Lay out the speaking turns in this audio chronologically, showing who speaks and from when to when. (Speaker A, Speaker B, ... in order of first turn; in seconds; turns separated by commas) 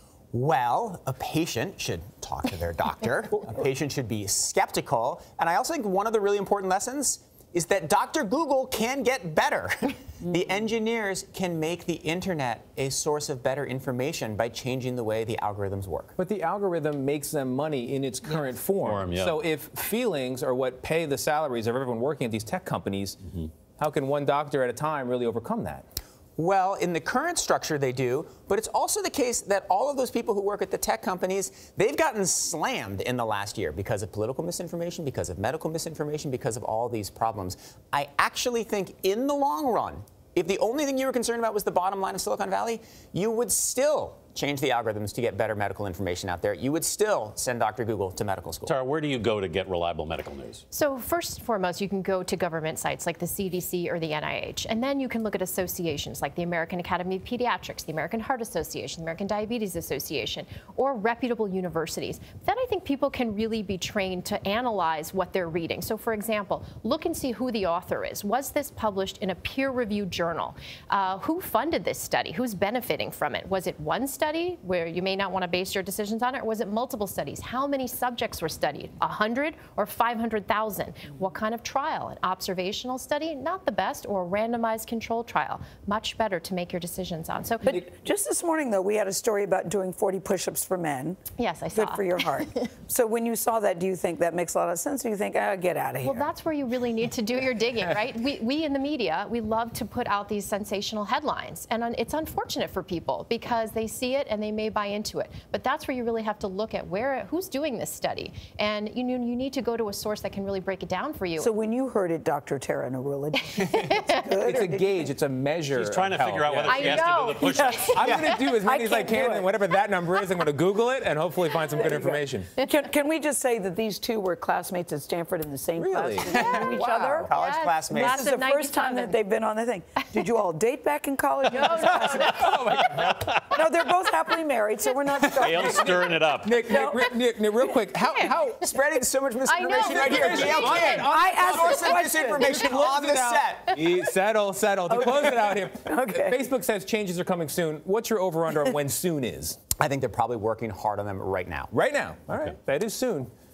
Speaker A: 0.3-16.1, Speaker B: 16.2-25.9, Speaker C: 18.8-19.4, Speaker A: 26.4-48.8, Speaker C: 48.7-50.6, Speaker D: 50.7-87.7, Speaker E: 87.6-91.2, Speaker D: 91.4-92.6, Speaker E: 91.7-96.3, Speaker D: 96.0-111.5, Speaker E: 111.4-115.0, Speaker D: 113.6-114.2, Speaker B: 114.4-122.5, Speaker C: 115.7-118.1, Speaker D: 116.7-118.6, Speaker A: 118.0-118.4, Speaker E: 118.5-119.5, Speaker E: 121.8-127.3, Speaker B: 125.8-126.2, Speaker D: 126.3-129.2, Speaker A: 126.3-128.2, Speaker E: 127.9-132.5, Speaker B: 131.5-133.4, Speaker D: 131.7-132.4, Speaker C: 132.8-133.3, Speaker E: 133.4-137.1, Speaker B: 135.3-138.7, Speaker C: 135.4-136.6, Speaker A: 138.6-143.8, Speaker D: 139.4-141.1, Speaker B: 139.8-149.6, Speaker E: 141.0-142.7, Speaker D: 142.4-142.7, Speaker E: 144.9-146.4, Speaker A: 149.8-151.7, Speaker B: 151.7-153.3